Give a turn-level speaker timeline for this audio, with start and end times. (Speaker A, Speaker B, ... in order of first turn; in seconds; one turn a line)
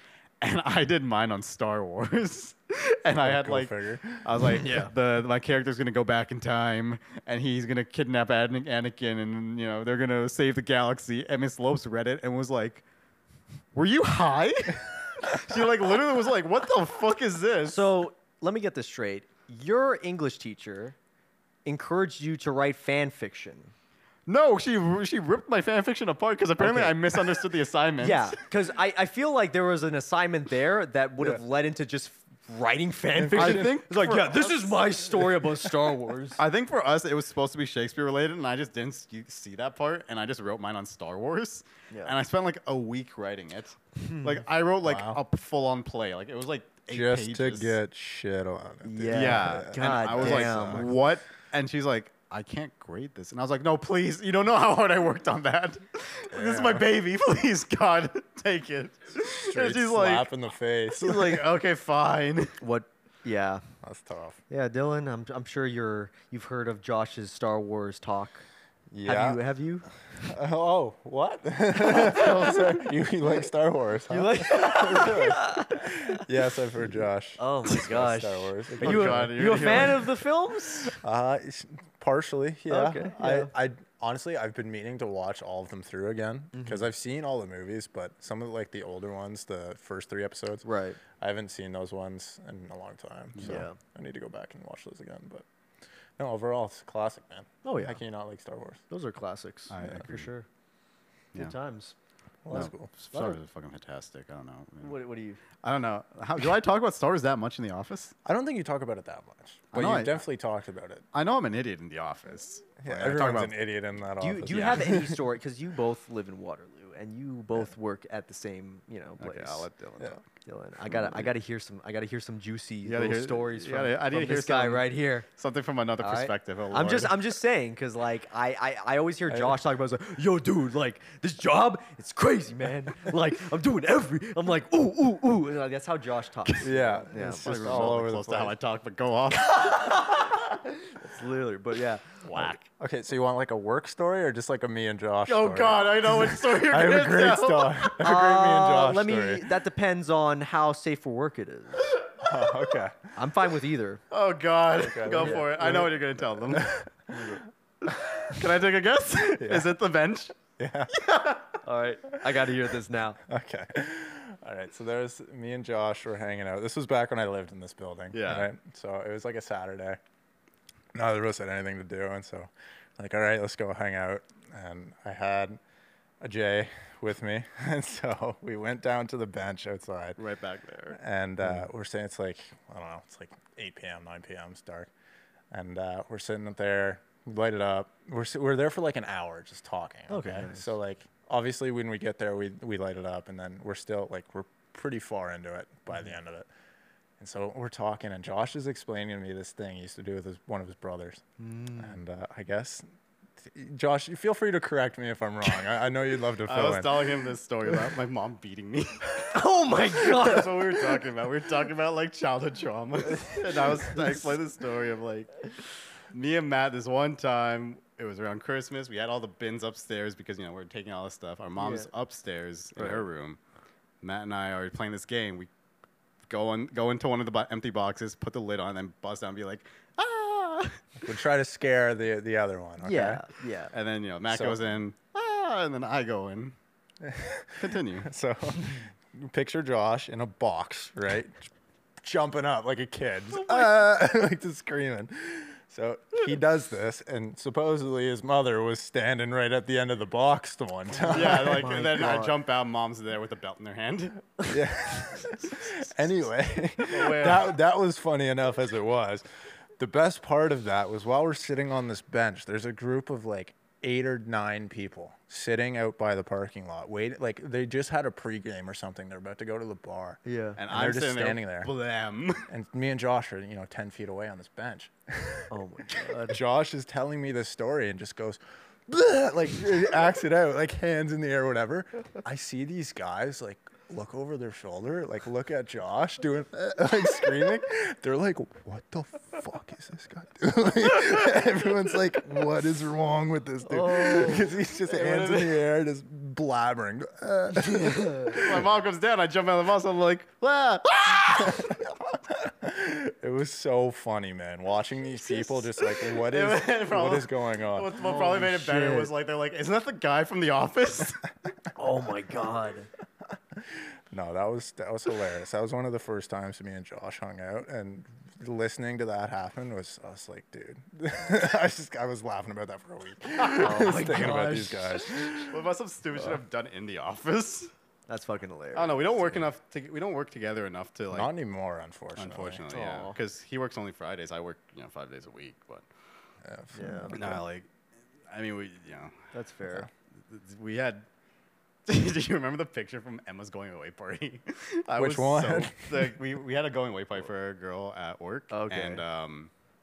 Speaker A: 0.4-12.8
Speaker B: 3.2-4.2
Speaker C: 4.5-4.9
Speaker A: 13.7-17.9
Speaker C: 17.7-20.9
Speaker C: 21.6-23.7
Speaker A: 24.3-28.4
Speaker C: 26.6-27.4
Speaker C: 28.0-36.4
Speaker B: 33.1-33.8
Speaker A: 33.3-35.7
Speaker A: 36.4-47.8
Speaker C: 44.0-44.4
Speaker B: 44.8-45.2
Speaker B: 46.9-50.9
Speaker C: 48.8-51.0
Speaker A: 49.1-60.3
Speaker B: 56.3-56.9
Speaker B: 59.2-61.4
Speaker C: 61.0-61.5
Speaker A: 61.1-62.6
Speaker C: 62.6-63.6
Speaker B: 63.8-64.4
Speaker C: 64.5-68.5
Speaker B: 68.9-69.4
Speaker C: 69.0-69.9
Speaker B: 70.2-79.9
Speaker C: 72.0-72.6
Speaker C: 74.1-76.2
Speaker C: 77.4-81.0
Speaker A: 78.8-80.0
Speaker B: 81.0-90.7
Speaker C: 82.7-83.5
Speaker C: 86.5-86.9
Speaker C: 90.6-91.0
Speaker B: 91.2-95.5
Speaker A: 93.3-93.7
Speaker C: 93.4-93.8
Speaker B: 96.2-98.8
Speaker C: 97.6-98.0
Speaker C: 98.9-100.5
Speaker A: 99.7-100.3
Speaker C: 101.3-102.0
Speaker B: 102.5-102.9
Speaker A: 102.5-105.0
Speaker C: 103.1-103.4
Speaker C: 104.8-105.4
Speaker A: 105.6-108.1
Speaker B: 108.2-111.0
Speaker A: 109.7-110.2
Speaker A: 111.1-113.6
Speaker B: 112.8-115.2
Speaker C: 114.2-119.7
Speaker A: 114.5-115.0
Speaker A: 119.2-120.2
Speaker C: 120.4-125.3
Speaker A: 120.9-121.3
Speaker A: 122.8-127.2
Speaker C: 126.0-137.8
Speaker B: 129.3-129.6
Speaker B: 136.6-138.6
Speaker A: 137.1-139.9
Speaker C: 139.6-142.2
Speaker A: 142.2-142.6
Speaker B: 142.4-149.6
Speaker A: 145.3-147.9
Speaker C: 147.9-152.1
Speaker B: 152.2-153.1
Speaker C: 153.1-154.0
Speaker A: 154.1-156.8
Speaker B: 154.8-157.2
Speaker C: 155.1-155.7
Speaker C: 157.1-157.4
Speaker A: 158.2-160.4
Speaker B: 159.4-159.7
Speaker B: 160.6-161.0
Speaker C: 161.6-163.2
Speaker B: 163.3-170.0
Speaker A: 168.1-168.5
Speaker B: 170.9-175.6
Speaker B: 176.2-180.2
Speaker A: 180.2-181.0
Speaker B: 180.9-184.9
Speaker B: 185.5-196.5
Speaker C: 190.1-190.7
Speaker B: 197.2-202.9
Speaker C: 201.4-201.9
Speaker B: 203.4-207.0
Speaker A: 206.4-209.3
Speaker C: 209.2-211.0
Speaker A: 210.0-215.3
Speaker A: 216.1-223.4
Speaker C: 221.6-221.9
Speaker A: 224.0-225.5
Speaker A: 226.3-230.8
Speaker B: 231.0-233.2
Speaker C: 232.8-233.7
Speaker A: 233.7-236.6
Speaker B: 234.3-234.6
Speaker B: 237.0-241.5
Speaker A: 237.6-238.1
Speaker B: 242.0-251.8
Speaker C: 243.4-243.8
Speaker C: 251.0-252.4
Speaker A: 251.1-254.3
Speaker B: 254.5-259.2
Speaker A: 256.9-257.6
Speaker B: 259.8-271.7
Speaker C: 270.2-270.6
Speaker A: 270.6-272.5
Speaker B: 272.5-298.7
Speaker C: 275.5-276.4
Speaker C: 293.7-294.6
Speaker A: 294.9-295.6
Speaker C: 297.8-298.3
Speaker A: 298.1-301.8
Speaker B: 301.3-308.9
Speaker A: 305.5-311.2
Speaker C: 308.3-309.0
Speaker C: 311.8-312.9
Speaker B: 313.6-325.5
Speaker C: 323.4-325.5
Speaker A: 325.5-327.7
Speaker C: 328.1-329.2
Speaker A: 328.7-331.3
Speaker B: 331.1-332.6
Speaker A: 332.2-335.9
Speaker C: 332.7-333.2
Speaker B: 336.4-337.2
Speaker C: 336.7-337.4
Speaker A: 337.1-337.7
Speaker A: 338.3-339.3
Speaker C: 339.3-339.9
Speaker A: 340.3-341.1
Speaker A: 341.9-349.5
Speaker B: 344.9-346.2
Speaker C: 348.5-349.0